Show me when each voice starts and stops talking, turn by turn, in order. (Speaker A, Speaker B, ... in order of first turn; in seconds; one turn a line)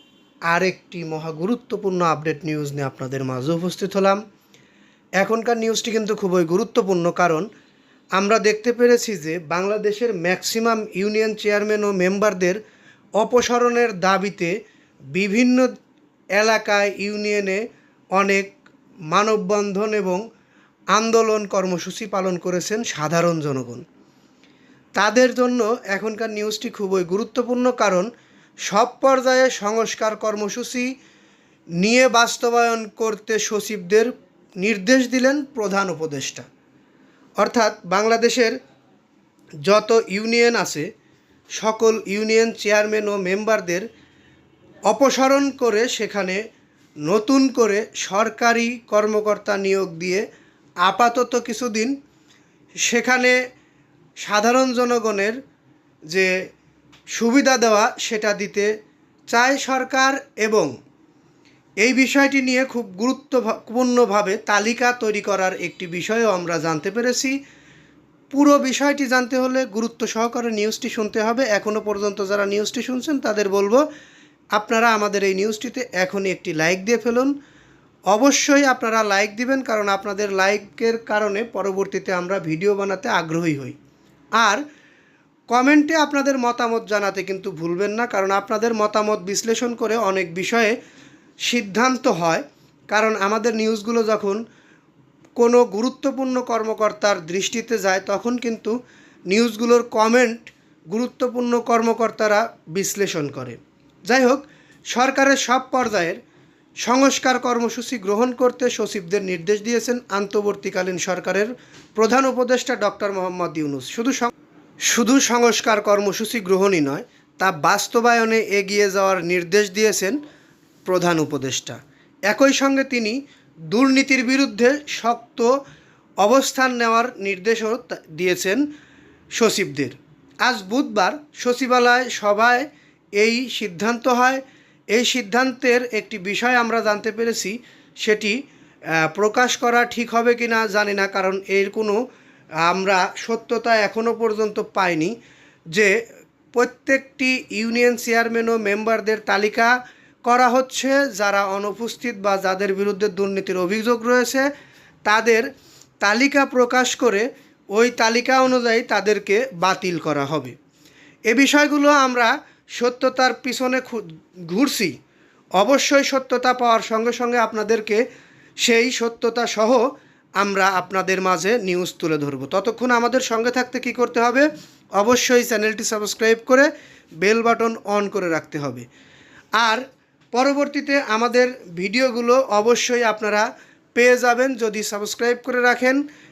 Speaker A: 0.5-4.2
Speaker A: 5.2-7.5
Speaker A: 8.2-12.6
Speaker A: 13.2-14.5
Speaker A: 15.1-15.7
Speaker A: 16.4-17.6
Speaker A: 18.1-18.5
Speaker A: 19.1-20.2
Speaker A: 20.9-23.8
Speaker A: 24.9-28.1
Speaker A: 28.6-30.9
Speaker A: 31.8-36.4
Speaker A: 37.4-38.5
Speaker A: 39.6-40.9
Speaker A: 41.6-43.9
Speaker A: 44.9-46.4
Speaker A: 47.0-50.2
Speaker A: 50.8-51.9
Speaker A: 52.8-53.4
Speaker A: 54.2-55.4
Speaker A: 57.1-58.7
Speaker A: 59.3-60.7
Speaker A: 61.8-67.3
Speaker A: 68.3-73.8
Speaker A: 74.5-77.3
Speaker A: 78.1-83.7
Speaker A: 85.5-90.8
Speaker A: 91.4-94.4
Speaker A: 95.4-98.7
Speaker A: 99.3-106.2
Speaker A: 106.8-114.3
Speaker A: 114.9-120.2
Speaker A: 120.8-121.8
Speaker A: 122.3-123.2
Speaker A: 123.7-125.5
Speaker A: 126.2-128.6
Speaker A: 129.3-134.4
Speaker A: 134.9-138.3
Speaker A: 139.0-142.0
Speaker A: 142.6-145.1
Speaker A: 146.5-149.7
Speaker A: 150.2-154.4
Speaker A: 155.1-155.5
Speaker A: 156.0-160.5
Speaker A: 161.3-164.9
Speaker A: 165.6-168.0
Speaker A: 168.6-169.8
Speaker A: 170.4-176.7
Speaker A: 177.2-178.8
Speaker A: 180.3-186.0